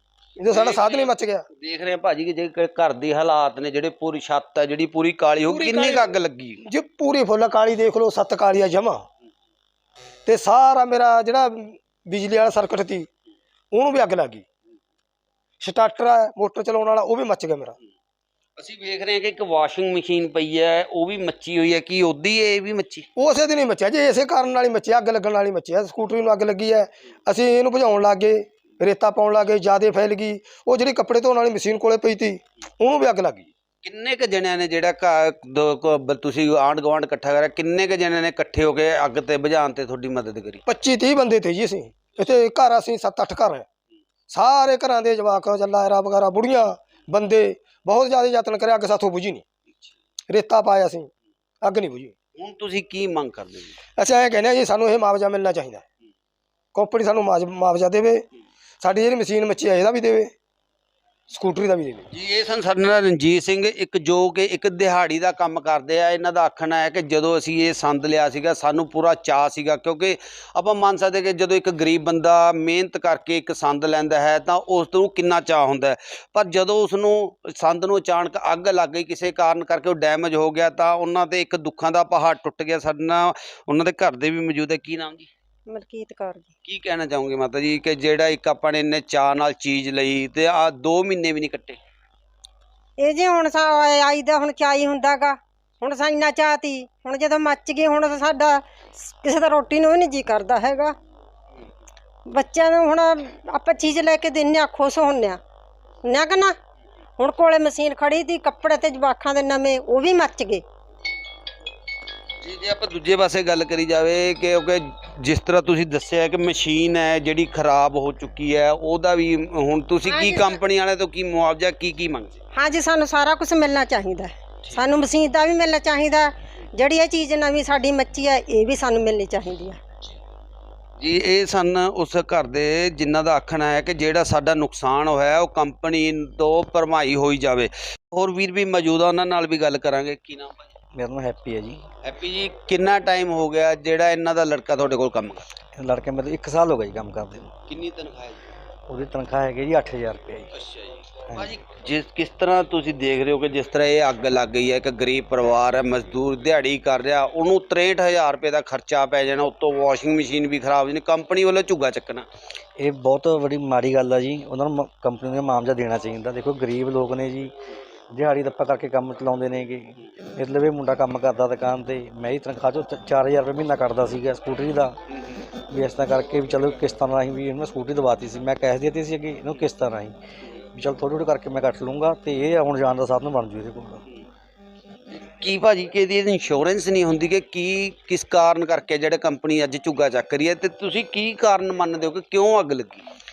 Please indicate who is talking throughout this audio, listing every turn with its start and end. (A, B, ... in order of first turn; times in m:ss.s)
0:00.4-0:01.5 A
0:00.5-0:06.6 B
0:05.5-0:06.1 A
0:06.6-0:09.0 A
0:10.3-0:13.1 A
0:13.7-0:14.4 A
0:15.6-0:17.8 A
0:18.6-0:23.1 B
0:23.2-0:33.5 A
0:33.8-0:40.6 B
0:40.7-0:43.7 A
0:44.3-0:49.4 A
0:50.3-0:51.1 A
0:51.6-0:52.1 A
0:52.4-0:53.8 B
0:54.0-0:55.8 A
0:56.7-0:58.2 A
0:58.8-1:00.3 A
1:01.3-1:02.1 A
1:02.1-1:25.3 B
1:25.7-1:26.5 C
1:26.6-1:31.8 B
1:33.0-1:41.0 C
1:42.3-1:45.4 C
1:46.0-1:46.6 C
1:47.2-1:50.6 C
1:52.4-2:02.4 B
2:00.1-2:00.6 C
2:02.6-2:09.8 C
2:11.0-2:20.6 B
2:21.0-2:21.8 D
2:22.0-2:25.5 B
2:25.8-2:27.6 D
2:27.7-2:28.4 B
2:28.9-2:30.5 D
2:30.6-2:42.3 B
2:42.8-2:47.5 D
2:48.1-2:55.0 D
2:55.7-3:00.2 D
3:00.8-3:04.0 D
3:05.4-3:13.0 B